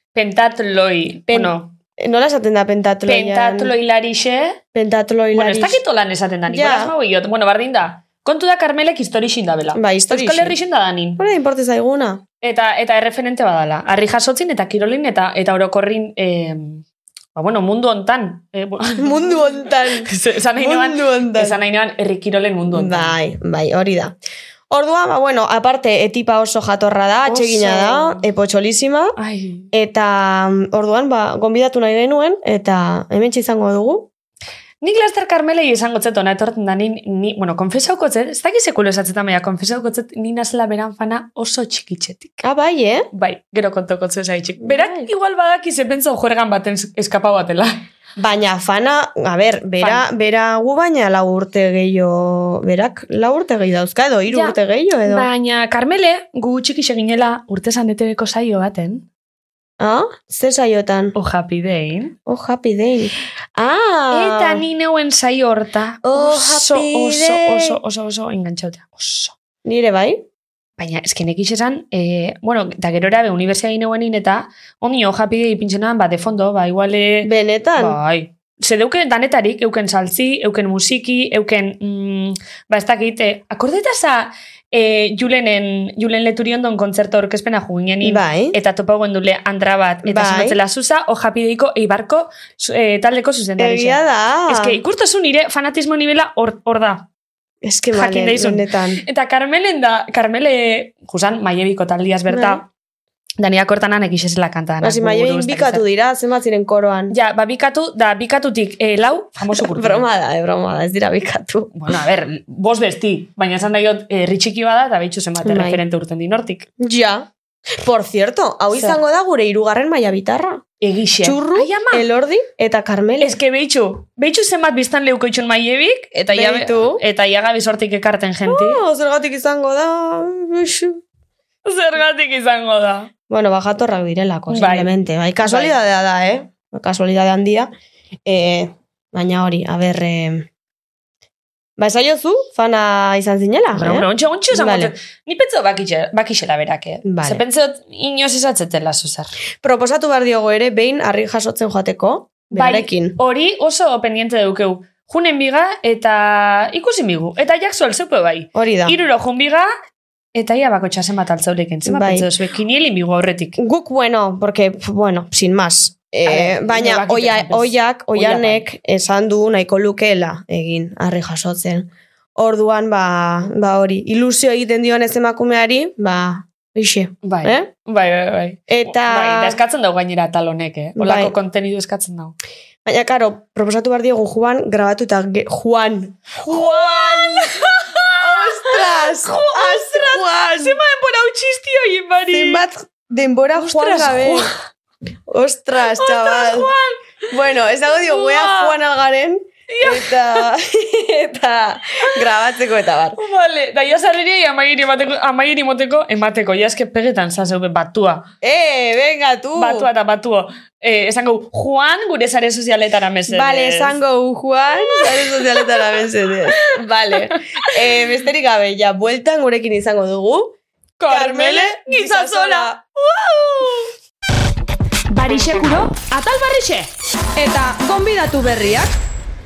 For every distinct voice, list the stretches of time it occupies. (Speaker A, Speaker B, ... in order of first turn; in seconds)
Speaker A: 0.1-1.7, 3.1-4.6, 5.3-11.2, 12.4-16.8, 17.3-19.5, 20.0-23.1, 27.2-28.2, 29.2-29.7, 34.8-42.4, 43.1-47.8, 49.8-50.1, 54.3-54.5, 55.1-59.0, 61.1-62.1, 64.1-69.3, 70.8-97.1, 97.9-102.7, 103.4-105.8, 107.1-110.0, 111.7-116.7, 120.8-122.1, 123.2-128.8, 131.6-133.1, 134.5-135.7, 143.7-149.3, 152.5-159.7, 160.3-163.6, 166.2-168.7, 177.2-182.3, 186.3-192.7, 193.6-194.5, 195.9-197.0, 197.9-198.8, 199.7-200.4, 203.2-208.3, 209.6-213.9, 214.9-216.0, 217.2-217.7, 221.0-223.9, 225.1-226.9
Speaker B: 1.3-3.7, 4.7-5.8, 6.5-6.9, 9.7-10.5, 11.2-12.2, 19.0-21.6, 22.7-24.1, 24.7-29.2, 29.7-34.1, 42.4-43.1, 44.6-45.1, 48.2-55.3, 59.8-61.1, 62.2-64.6, 66.0-67.8, 69.6-70.2, 77.2-78.0, 88.0-88.5, 90.0-90.6, 93.6-94.8, 97.6-99.0, 102.3-102.6, 104.8-107.2, 109.5-111.7, 115.4-115.8, 116.8-120.6, 121.2-123.4, 126.3-127.0, 128.4-131.0, 133.3-137.7, 138.2-140.5, 141.8-144.9, 147.0-147.4, 149.6-153.2, 158.5-158.9, 161.8-162.3, 163.6-177.7, 178.7-179.6, 181.0-181.3, 182.8-187.6, 188.2-190.8, 192.3-194.5, 195.3-196.7, 197.3-203.2, 208.4-209.9, 213.3-220.6, 221.1-222.7, 227.4-228.9